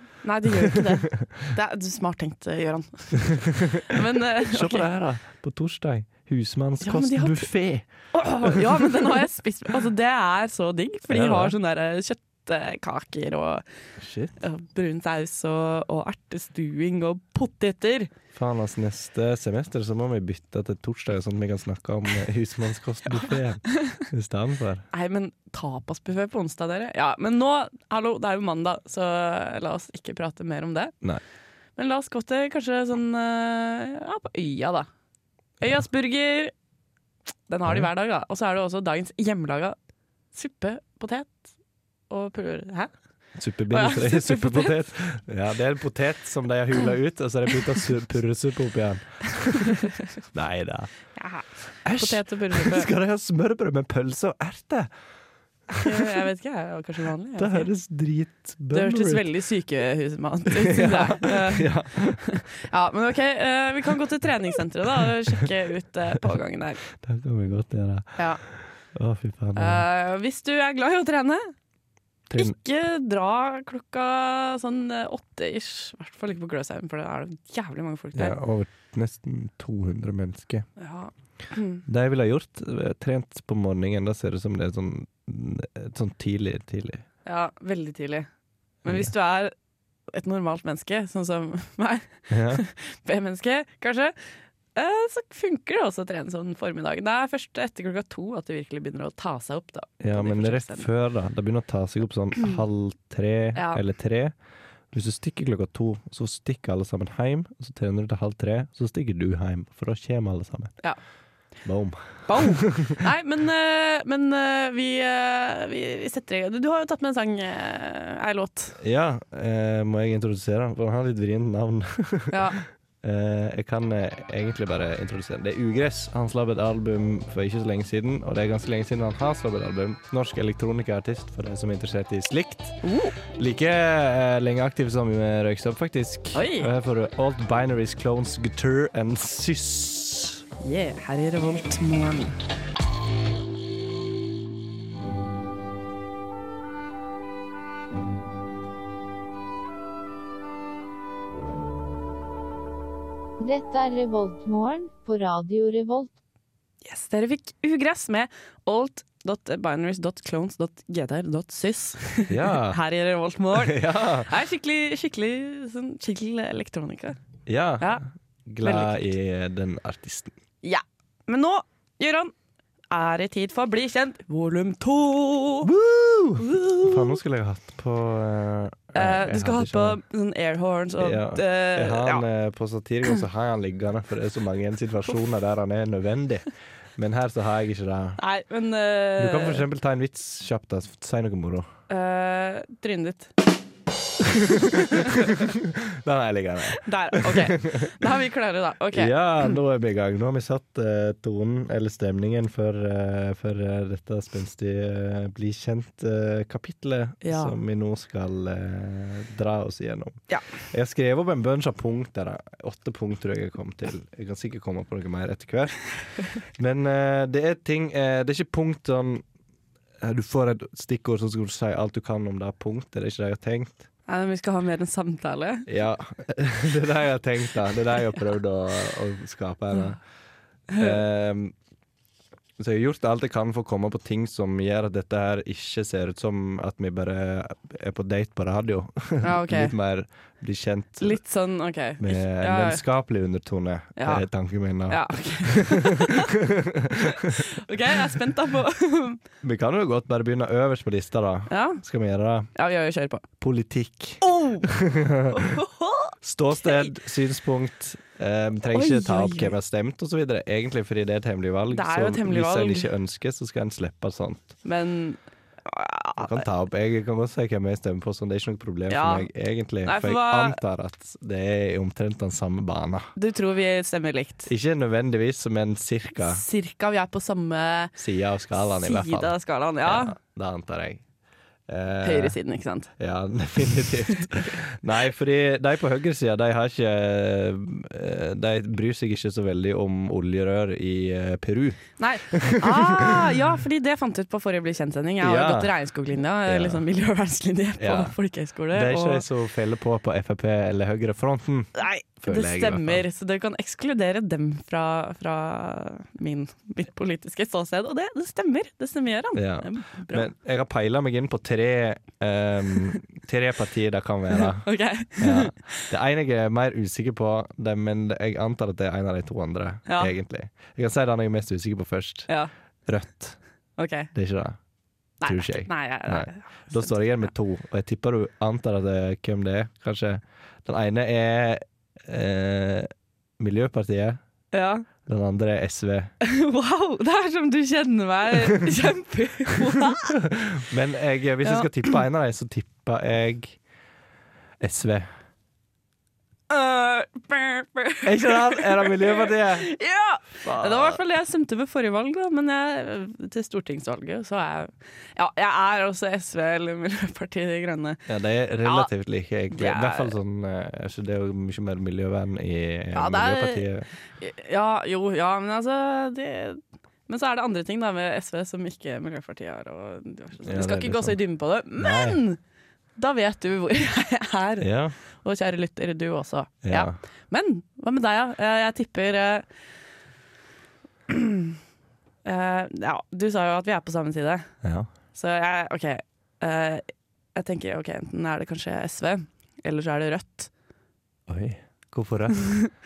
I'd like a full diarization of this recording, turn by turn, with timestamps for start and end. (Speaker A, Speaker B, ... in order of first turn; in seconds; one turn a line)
Speaker A: 0.2-4.9
Speaker B: 0.5-1.3
Speaker B: 3.3-9.1
Speaker A: 6.8-7.5
Speaker A: 8.1-13.6
Speaker B: 11.1-11.6
Speaker B: 14.0-14.3
Speaker A: 14.4-18.1
Speaker B: 18.3-24.9
Speaker A: 24.9-30.9
Speaker A: 31.8-34.9
Speaker A: 35.6-36.5
Speaker A: 37.5-39.8
Speaker A: 40.3-41.5
Speaker A: 42.1-42.9
Speaker B: 43.4-50.9
Speaker A: 43.7-44.8
Speaker A: 51.2-52.9
Speaker B: 51.8-54.9
Speaker B: 55.7-56.0
Speaker A: 55.8-57.7
Speaker B: 57.4-59.3
Speaker A: 58.7-66.8
Speaker B: 60.5-62.3
Speaker B: 66.9-69.9
Speaker A: 69.6-71.5
Speaker B: 72.3-72.6
Speaker A: 72.3-78.4
Speaker B: 78.1-80.7
Speaker A: 80.8-81.8
Speaker B: 81.9-87.0
Speaker A: 87.3-88.3
Speaker A: 88.8-89.5
Speaker B: 88.8-89.1
Speaker A: 90.1-94.2
Speaker B: 92.3-92.6
Speaker A: 94.8-100.9
Speaker B: 100.0-104.3
Speaker A: 103.5-103.8
Speaker B: 104.9-110.7
Speaker B: 111.7-113.0
Speaker A: 112.3-118.8
Speaker B: 118.8-122.4
Speaker A: 122.3-122.6
Speaker B: 123.0-132.8
Speaker A: 132.8-133.2
Speaker B: 133.3-140.4
Speaker A: 136.3-136.7
Speaker A: 140.6-142.4
Speaker C: 153.4-156.1
Speaker A: 156.8-167.2
Speaker B: 162.3-162.8
Speaker B: 163.5-164.3
Speaker B: 167.5-170.3
Speaker A: 168.6-169.0
Speaker A: 170.6-172.3
Speaker A: 172.9-175.7
Speaker B: 175.6-180.0
Speaker A: 176.4-177.2
Speaker A: 178.9-182.2
Speaker B: 181.0-188.2
Speaker A: 188.2-189.7
Speaker B: 189.2-191.7
Speaker A: 191.9-193.3
Speaker B: 194.2-198.1
Speaker A: 194.9-195.4
Speaker A: 196.7-199.6
Speaker B: 198.9-215.8
Speaker A: 207.2-207.6
Speaker B: 216.5-219.2
Speaker B: 220.0-223.9
Speaker A: 224.1-225.7
Speaker B: 225.7-230.0
Speaker A: 230.7-231.0
Speaker B: 230.8-231.5
Speaker B: 232.6-241.2
Speaker A: 239.2-239.7
Speaker A: 241.0-242.8
Speaker B: 242.0-247.4
Speaker A: 244.0-244.3
Speaker A: 244.9-246.3
Speaker A: 247.0-249.2
Speaker B: 249.4-252.5
Speaker A: 251.5-251.8
Speaker A: 252.6-253.2
Speaker B: 253.4-255.5
Speaker A: 254.2-254.7
Speaker A: 255.3-256.9
Speaker B: 256.2-264.6
Speaker A: 258.7-259.5
Speaker A: 261.7-262.9
Speaker A: 264.6-266.4
Speaker B: 266.2-273.1
Speaker A: 268.9-269.3
Speaker A: 269.8-270.6
Speaker A: 273.2-274.5
Speaker B: 274.5-276.4
Speaker A: 276.2-277.9
Speaker B: 278.0-281.0
Speaker A: 278.6-280.2
Speaker B: 281.7-282.4
Speaker A: 282.0-282.9
Speaker B: 283.0-293.3
Speaker A: 292.0-299.2
Speaker B: 295.2-295.8
Speaker B: 296.5-296.9
Speaker B: 297.8-298.1
Speaker B: 298.7-303.1
Speaker A: 301.8-310.3
Speaker B: 309.4-322.3
Speaker A: 314.3-315.9
Speaker A: 319.9-320.1
Speaker B: 322.9-323.4
Speaker A: 323.8-324.1
Speaker B: 324.1-324.6
Speaker A: 325.2-327.3
Speaker B: 325.2-334.2
Speaker A: 334.5-334.9
Speaker B: 335.1-336.1
Speaker A: 336.2-340.2
Speaker B: 340.1-343.6
Speaker A: 341.4-341.7
Speaker B: 344.6-345.1
Speaker A: 346.5-358.0
Speaker B: 348.0-349.7
Speaker B: 350.4-351.0
Speaker B: 358.1-363.9
Speaker A: 358.6-358.9
Speaker A: 359.5-360.1
Speaker A: 362.9-363.7
Speaker A: 364.2-372.4
Speaker B: 370.4-371.2
Speaker B: 371.8-372.2
Speaker A: 373.0-379.5
Speaker B: 374.6-374.9
Speaker B: 376.6-377.0
Speaker A: 381.1-381.6
Speaker A: 382.2-384.5
Speaker B: 384.6-384.9
Speaker A: 385.1-390.5
Speaker B: 391.3-392.5